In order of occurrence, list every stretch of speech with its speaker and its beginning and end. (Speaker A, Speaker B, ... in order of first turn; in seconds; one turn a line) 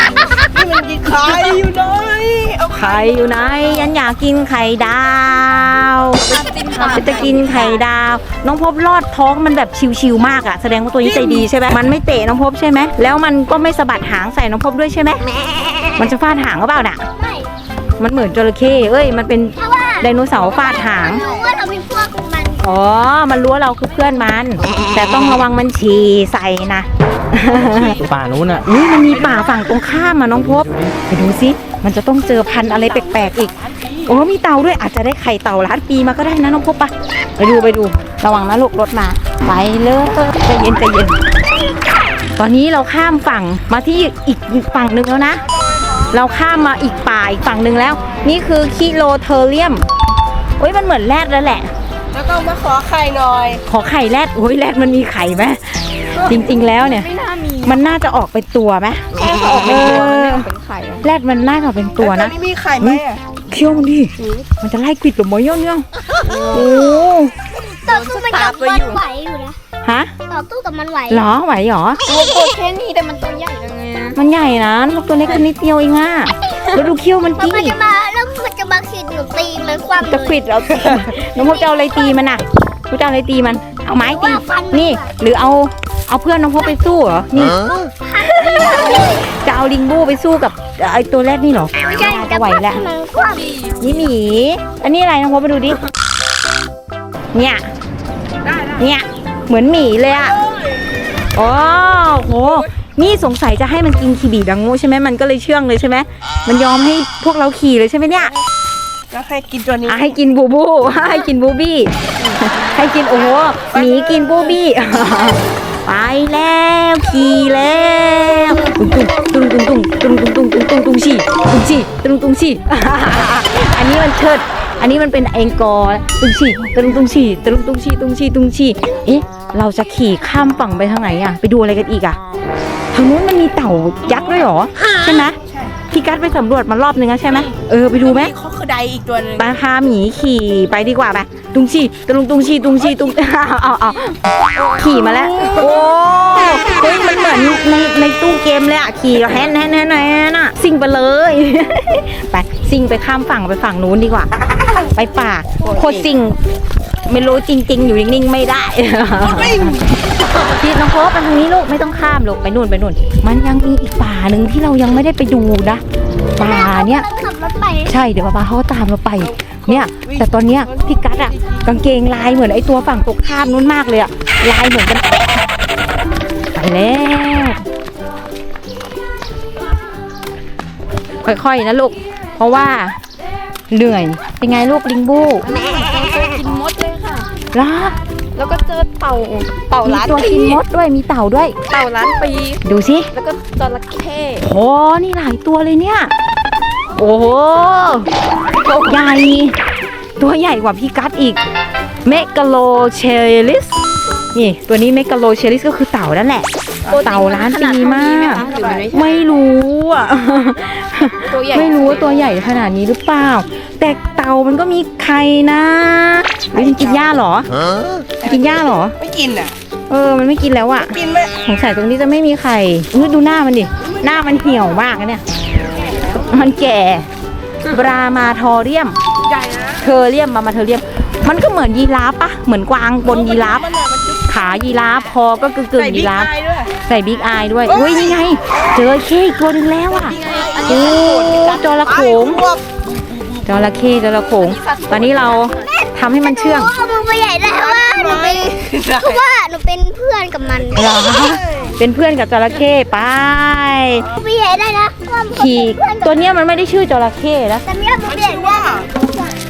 Speaker A: 0.5-3.8
Speaker B: 2.7-6.2
Speaker C: 6.2-7.8
Speaker A: 6.7-7.5
Speaker B: 6.8-15.2
Speaker A: 11.0-11.5
Speaker D: 15.4-16.1
Speaker B: 16.0-17.1
Speaker D: 17.2-17.5
Speaker B: 18.0-21.2
Speaker D: 19.6-22.6
Speaker A: 20.3-21.6
Speaker B: 22.6-28.0
Speaker E: 27.5-28.8
Speaker B: 28.6-33.5
Speaker A: 29.0-29.9
Speaker E: 30.3-31.0
Speaker A: 32.5-34.3
Speaker B: 34.0-41.2
Speaker B: 42.4-45.4
Speaker A: 45.5-46.2
Speaker B: 46.1-49.9
Speaker B: 50.6-51.7
Speaker A: 52.1-53.6
Speaker B: 53.7-57.1
Speaker C: 56.1-58.0
Speaker B: 57.6-60.5
Speaker C: 59.1-61.1
Speaker B: 61.0-65.8
Speaker A: 62.0-63.2
Speaker C: 66.2-66.7
Speaker B: 66.5-67.3
Speaker D: 67.8-69.6
Speaker C: 67.8-69.0
Speaker B: 69.8-70.1
Speaker D: 70.3-71.2
Speaker B: 71.1-72.0
Speaker C: 72.1-74.2
Speaker B: 74.2-77.8
Speaker D: 77.4-80.4
Speaker B: 80.0-87.6
Speaker D: 81.2-82.2
Speaker D: 84.0-85.1
Speaker D: 88.0-89.3
Speaker C: 88.3-89.2
Speaker B: 88.6-92.8
Speaker D: 91.8-93.5
Speaker C: 93.3-94.1
Speaker B: 93.8-95.8
Speaker B: 97.3-97.7
Speaker A: 98.4-98.9
Speaker B: 98.8-100.3
Speaker A: 100.2-100.9
Speaker B: 101.3-108.3
Speaker A: 108.2-108.4
Speaker A: 109.1-110.2
Speaker B: 109.9-132.2
Speaker A: 113.1-114.6
Speaker B: 132.9-135.4
Speaker A: 134.1-134.5
Speaker A: 135.4-135.8
Speaker B: 135.9-138.3
Speaker A: 137.4-139.6
Speaker B: 139.4-154.3
Speaker C: 144.6-145.5
Speaker A: 144.8-145.4
Speaker B: 154.9-156.4
Speaker C: 155.6-156.1
Speaker B: 157.1-165.8
Speaker A: 159.2-160.0
Speaker B: 166.3-167.1
Speaker D: 166.4-168.0
Speaker B: 167.9-175.4
Speaker A: 169.2-171.7
Speaker B: 176.5-177.6
Speaker B: 181.2-183.0
Speaker B: 183.7-185.5
Speaker C: 185.4-187.3
Speaker B: 187.5-188.0
Speaker C: 188.3-190.6
Speaker B: 189.8-191.6
Speaker C: 191.7-194.4
Speaker B: 192.6-193.1
Speaker B: 194.4-196.1
Speaker B: 197.0-198.1
Speaker C: 198.5-199.0
Speaker B: 198.8-199.6
Speaker B: 200.2-201.4
Speaker B: 202.0-203.8
Speaker B: 204.3-206.5
Speaker A: 206.8-207.2
Speaker C: 206.9-209.3
Speaker B: 207.0-217.5
Speaker A: 207.8-208.9
Speaker C: 211.2-212.4
Speaker A: 216.5-217.1
Speaker A: 218.2-219.5
Speaker B: 218.2-219.0
Speaker B: 219.9-225.2
Speaker A: 220.8-221.3
Speaker A: 223.8-224.8
Speaker A: 225.6-226.4
Speaker B: 226.2-227.1
Speaker B: 227.7-229.0
Speaker A: 229.2-229.9
Speaker B: 229.8-233.6
Speaker A: 233.0-234.4
Speaker B: 234.3-236.3
Speaker A: 235.8-236.7
Speaker B: 236.8-242.5
Speaker A: 237.6-239.0
Speaker A: 239.9-243.0
Speaker C: 240.1-241.1
Speaker B: 243.4-246.7
Speaker C: 244.3-245.7
Speaker D: 245.5-250.9
Speaker A: 247.4-249.2
Speaker B: 250.8-254.1
Speaker A: 250.8-251.8
Speaker D: 254.0-256.4
Speaker B: 255.3-257.6
Speaker D: 257.6-259.3
Speaker A: 258.0-258.9